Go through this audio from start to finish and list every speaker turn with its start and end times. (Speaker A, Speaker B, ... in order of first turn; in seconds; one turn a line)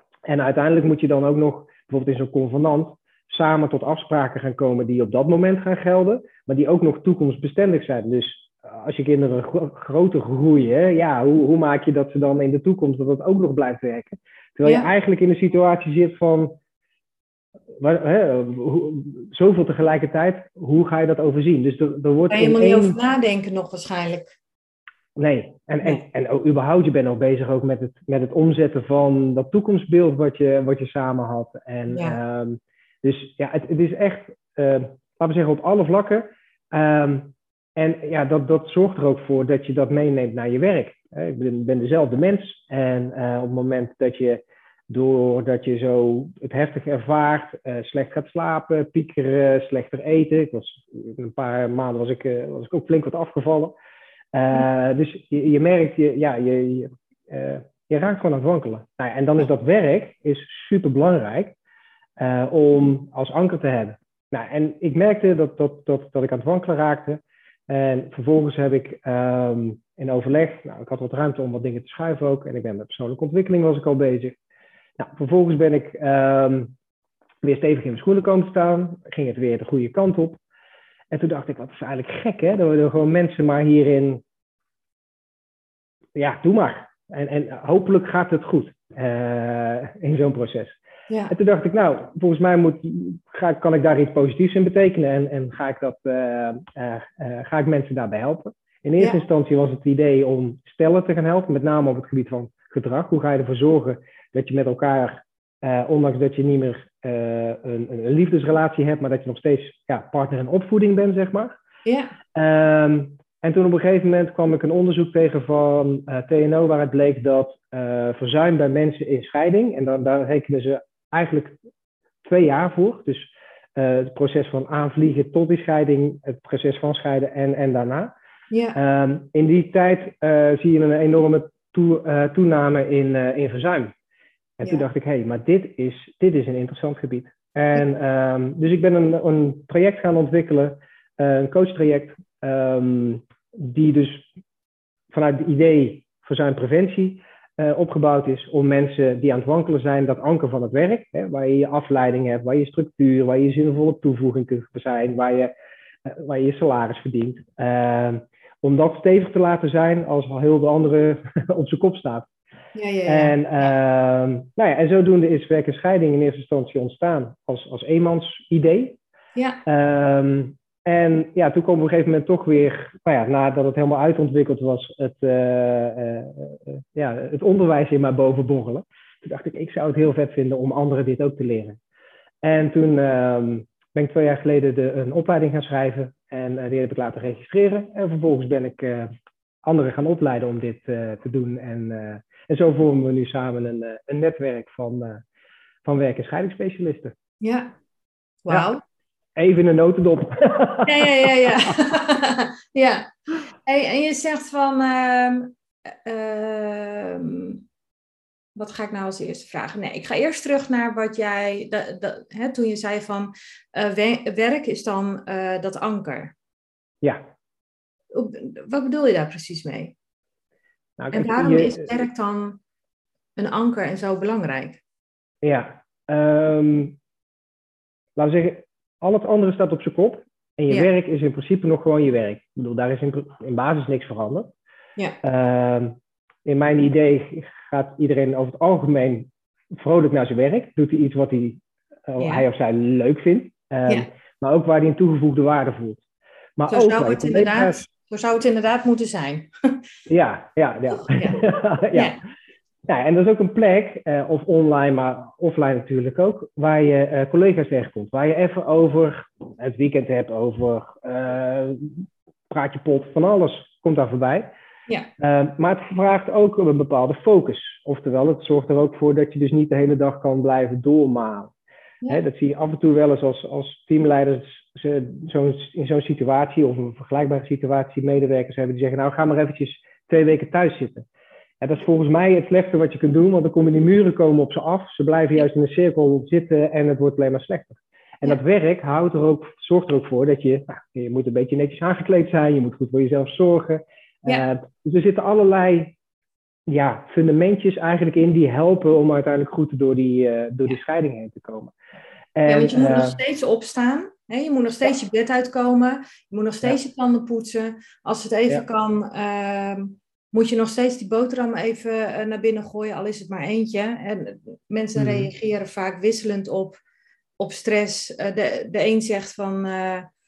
Speaker A: 0.3-16.6
Speaker B: 14.6-14.9
Speaker A: 17.8-22.9
Speaker B: 22.3-24.3
Speaker A: 25.1-53.8
Speaker B: 31.9-32.2
Speaker A: 54.3-61.5
Speaker A: 62.2-74.4
Speaker A: 75.0-76.7
Speaker A: 77.4-80.4
Speaker A: 81.1-84.2
Speaker A: 86.2-90.8
Speaker B: 91.1-91.3
Speaker A: 91.3-111.5
Speaker B: 111.8-112.2
Speaker A: 112.3-121.6
Speaker A: 122.2-128.1
Speaker B: 128.5-128.8
Speaker A: 128.7-133.9
Speaker A: 134.6-144.3
Speaker A: 145.1-155.5
Speaker A: 156.0-162.3
Speaker B: 162.7-163.7
Speaker A: 163.1-169.0
Speaker B: 169.3-169.6
Speaker A: 169.6-181.8
Speaker A: 182.4-189.1
Speaker A: 189.6-195.2
Speaker A: 195.8-197.1
Speaker B: 197.4-197.7
Speaker B: 198.4-198.8
Speaker A: 199.3-201.5
Speaker B: 200.8-207.6
Speaker B: 208.5-216.3
Speaker B: 218.1-219.9
Speaker A: 221.0-221.9
Speaker B: 221.1-222.6
Speaker B: 223.4-224.8
Speaker A: 225.4-226.9
Speaker A: 228.2-234.5
Speaker A: 235.2-246.0
Speaker B: 242.2-242.4
Speaker A: 246.6-247.8
Speaker B: 246.7-249.5
Speaker A: 250.1-252.1
Speaker B: 250.9-252.2
Speaker A: 252.9-264.5
Speaker A: 265.2-271.5
Speaker A: 272.1-281.0
Speaker A: 281.6-295.9
Speaker A: 296.7-301.7
Speaker A: 302.4-303.2
Speaker B: 302.5-316.8
Speaker A: 314.9-315.3
Speaker B: 317.4-320.1